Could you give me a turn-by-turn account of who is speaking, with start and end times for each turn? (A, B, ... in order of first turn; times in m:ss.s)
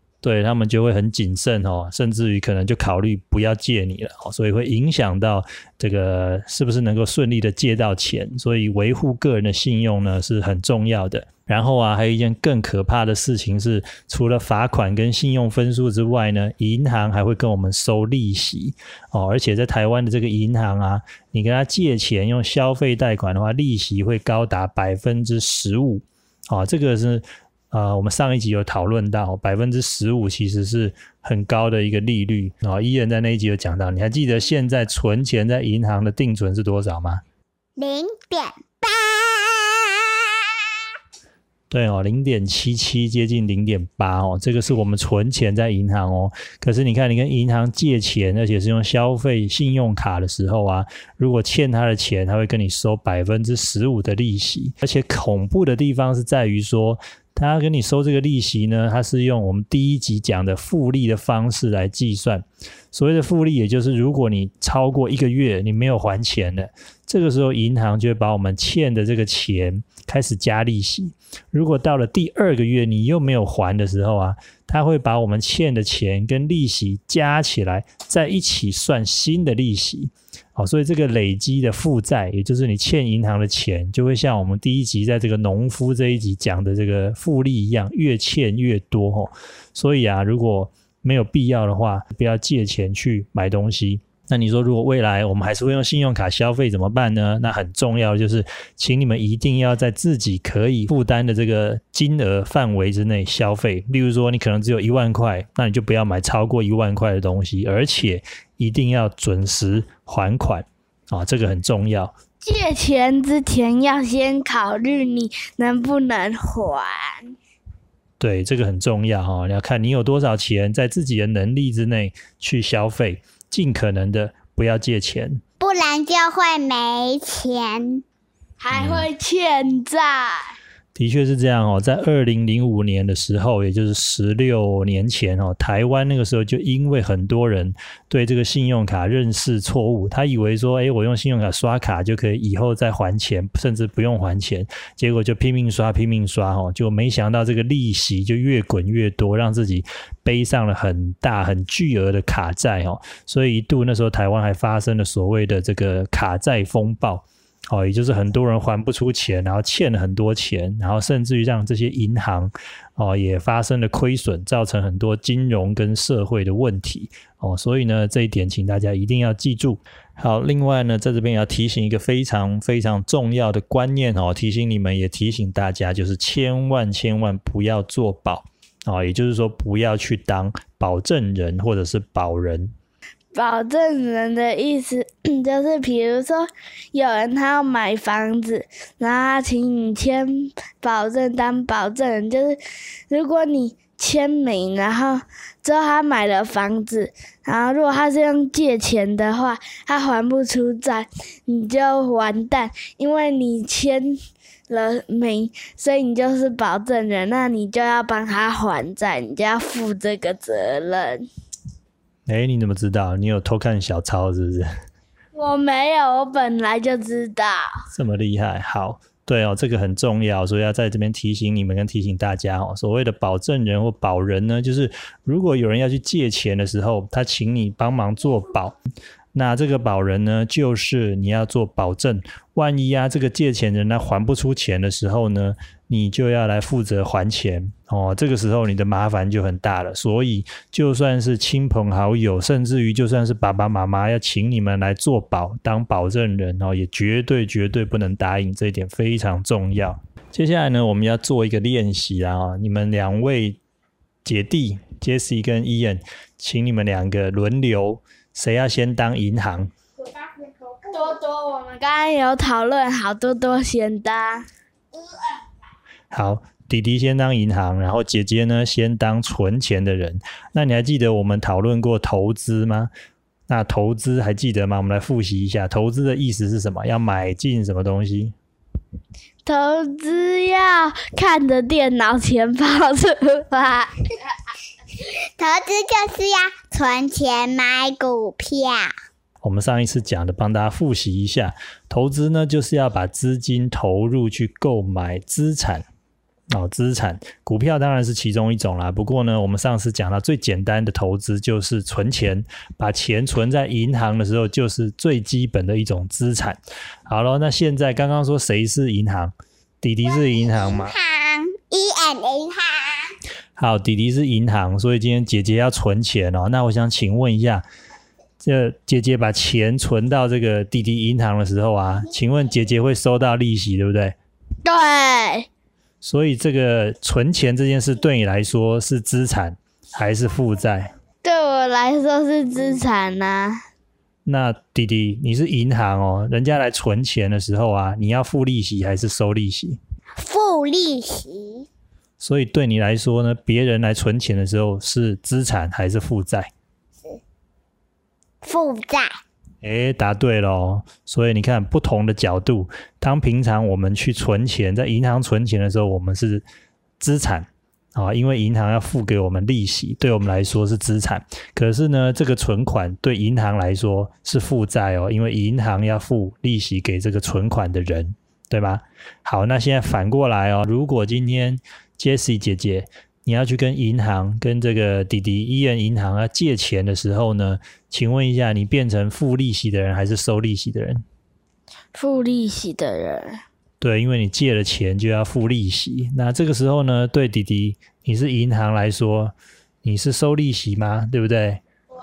0:00.2-0:37.2 A
0:37.8-0:40.0 B
0:41.7-1:52.1 A
1:52.4-1:57.3 C
1:58.2-2:05.4 A
2:05.6-2:08.0 B
2:08.6-2:10.5 C
2:08.7-2:09.1 A
2:10.9-3:02.7 A
3:03.3-3:24.2 C
3:24.7-3:31.2 C
3:32.2-3:34.7 A
3:35.3-3:37.7 C
3:37.9-3:48.7 A
3:49.3-4:13.6 A
4:14.2-4:19.7 A
4:20.8-4:24.4 C
4:26.1-4:32.9 A
4:33.5-4:38.4 A
4:39.4-4:44.0 C
4:45.4-4:48.9 B
4:49.4-4:55.8 A
4:56.5-5:10.9 A
5:10.2-5:13.1 B
5:13.6-5:17.6 A
5:18.4-5:24.2 A
5:24.6-5:25.5 C
5:26.0-5:30.9 A
5:31.2-5:33.6 C
5:34.2-5:39.8 A
5:40.2-5:41.6 B
5:42.2-5:46.5 A
5:48.4-5:49.2 B
5:49.6-5:56.4 A
5:57.0-6:21.0 A
6:21.9-6:23.4 C
6:23.8-6:31.6 A